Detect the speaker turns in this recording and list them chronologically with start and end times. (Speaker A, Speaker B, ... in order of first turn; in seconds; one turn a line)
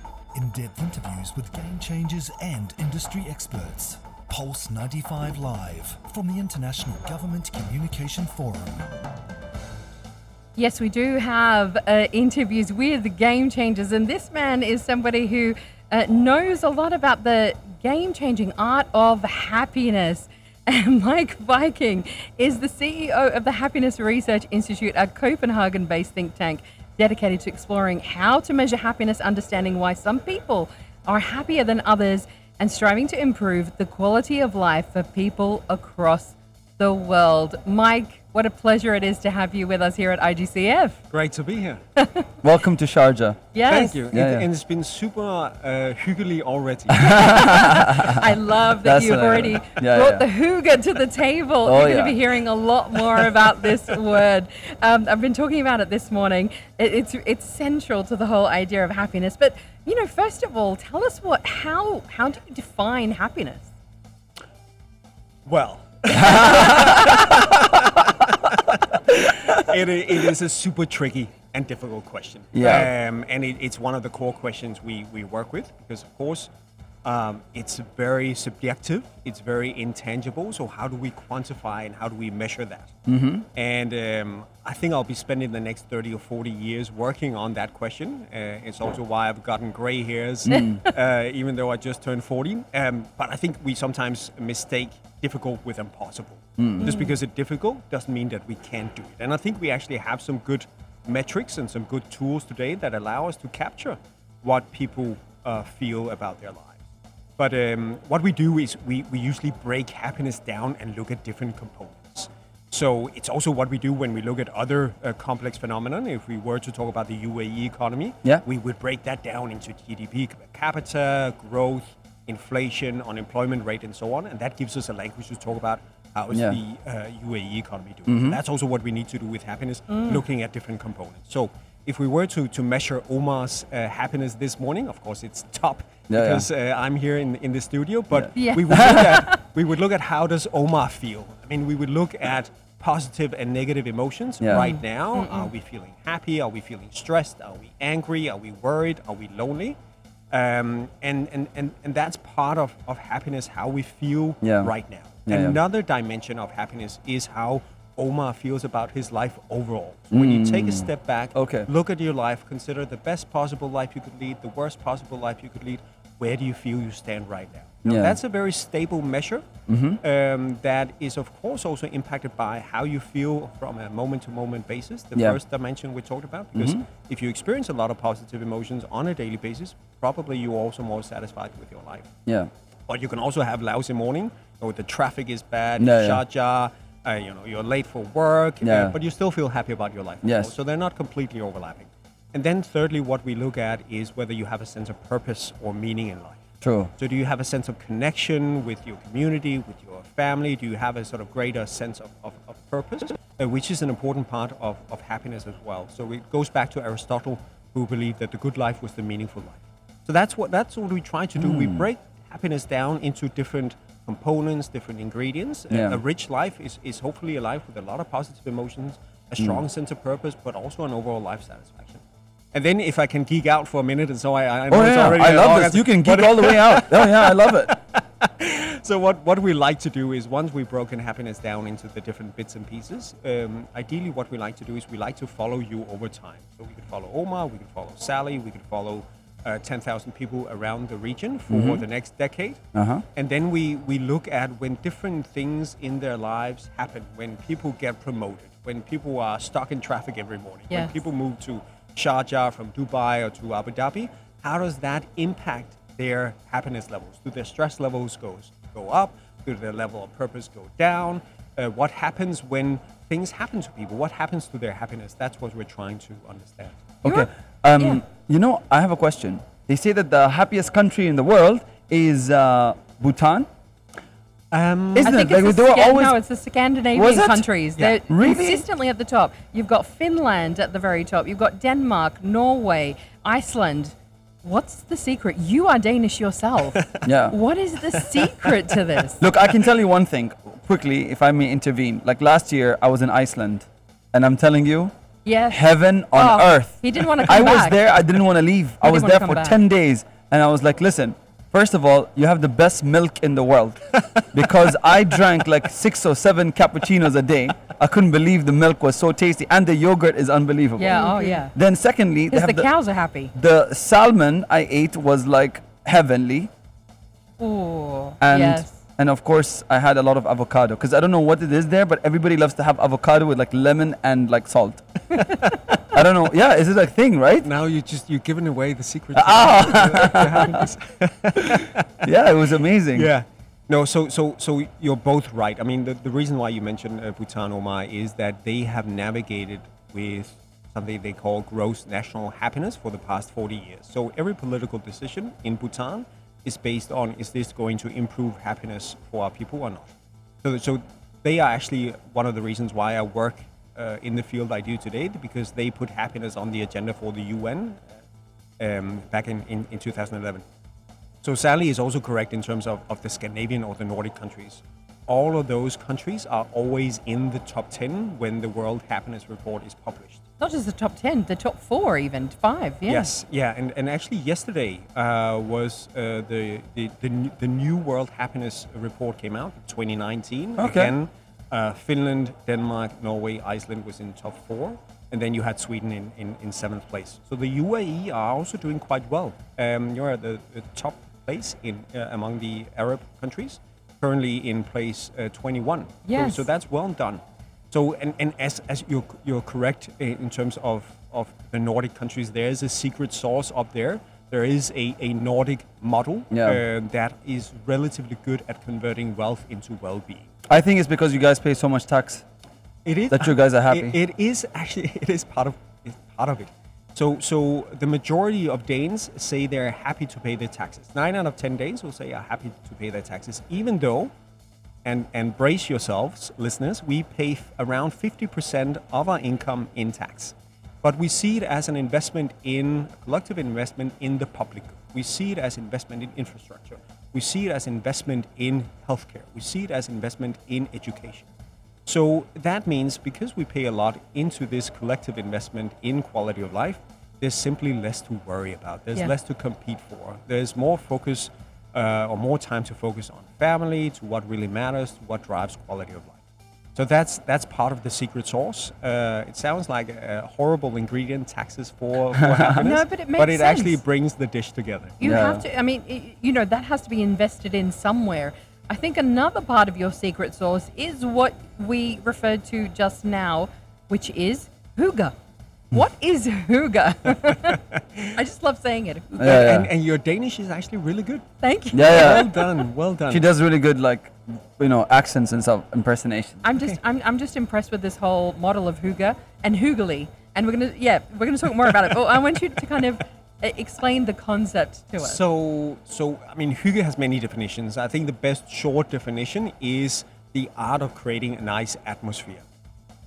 Speaker A: 0.3-9.1
Speaker B: 10.6-41.0
Speaker C: 41.1-41.8
Speaker B: 42.0-42.3
Speaker D: 42.4-43.4
Speaker B: 43.5-44.0
Speaker C: 43.7-47.4
Speaker D: 44.1-44.5
Speaker D: 47.0-48.2
Speaker B: 47.1-63.7
Speaker D: 48.8-50.2
Speaker D: 51.6-52.2
Speaker C: 65.5-76.5
Speaker D: 66.2-67.2
Speaker D: 72.5-72.9
Speaker C: 77.0-83.0
Speaker D: 83.1-83.5
Speaker C: 83.5-106.8
Speaker D: 90.5-90.8
Speaker D: 96.6-96.9
Speaker B: 96.8-97.2
Speaker C: 107.4-149.8
Speaker D: 126.3-126.6
Speaker D: 128.1-128.4
Speaker B: 129.9-130.2
Speaker D: 136.1-136.5
Speaker D: 138.1-139.2
Speaker B: 138.3-139.4
Speaker D: 144.4-144.7
Speaker B: 144.5-145.5
Speaker C: 150.3-169.5
Speaker D: 154.4-154.7
Speaker D: 155.3-155.6
Speaker D: 160.1-161.7
Speaker D: 167.8-168.2
Speaker D: 169.7-170.0
Speaker C: 170.0-182.1
Speaker D: 176.6-176.9
Speaker C: 182.9-196.4
Speaker D: 185.8-186.2
Speaker D: 188.6-188.9
Speaker D: 190.2-190.5
Speaker D: 196.6-196.9
Speaker C: 197.0-242.6
Speaker D: 211.4-211.9
Speaker D: 215.7-216.0
Speaker D: 224.7-227.8
Speaker D: 241.5-241.8
Speaker D: 242.7-243.0
Speaker C: 243.2-266.9
Speaker B: 250.7-251.0
Speaker D: 267.0-273.5
Speaker B: 267.0-268.0
Speaker C: 274.5-275.1
Speaker D: 274.9-276.2
Speaker B: 275.0-289.2
Speaker D: 276.9-277.4
Speaker D: 278.1-278.6
Speaker D: 287.1-287.4
Speaker D: 289.2-294.9
Speaker B: 295.2-297.8
Speaker D: 295.5-312.7
Speaker B: 298.8-299.6
Speaker B: 310.8-311.5
Speaker B: 312.3-313.3
Speaker D: 313.3-316.5
Speaker B: 317.4-318.8
Speaker D: 318.2-325.2
Speaker D: 325.9-327.5
Speaker C: 327.4-331.8
Speaker D: 329.1-330.6
Speaker D: 332.0-333.1
Speaker C: 332.9-357.9
Speaker C: 358.6-360.4
Speaker C: 361.2-370.2
Speaker B: 370.4-373.1
Speaker C: 372.9-397.2
Speaker D: 380.6-380.9
Speaker B: 396.1-396.4
Speaker C: 397.7-410.4
Speaker D: 406.3-406.6
Speaker D: 410.5-412.2
Speaker C: 412.9-424.1
Speaker D: 413.1-414.0
Speaker C: 424.9-441.3
Speaker C: 441.9-456.2
Speaker C: 456.8-465.0
Speaker B: 462.6-463.8
Speaker B: 465.0-475.1
Speaker D: 465.0-465.4
Speaker B: 475.7-477.6
Speaker C: 477.5-478.1
Speaker B: 478.1-479.2
Speaker D: 479.1-479.7
Speaker C: 479.2-483.3
Speaker B: 481.4-482.4
Speaker D: 481.7-482.3
Speaker D: 483.1-486.4
Speaker B: 486.4-495.2
Speaker C: 495.0-502.5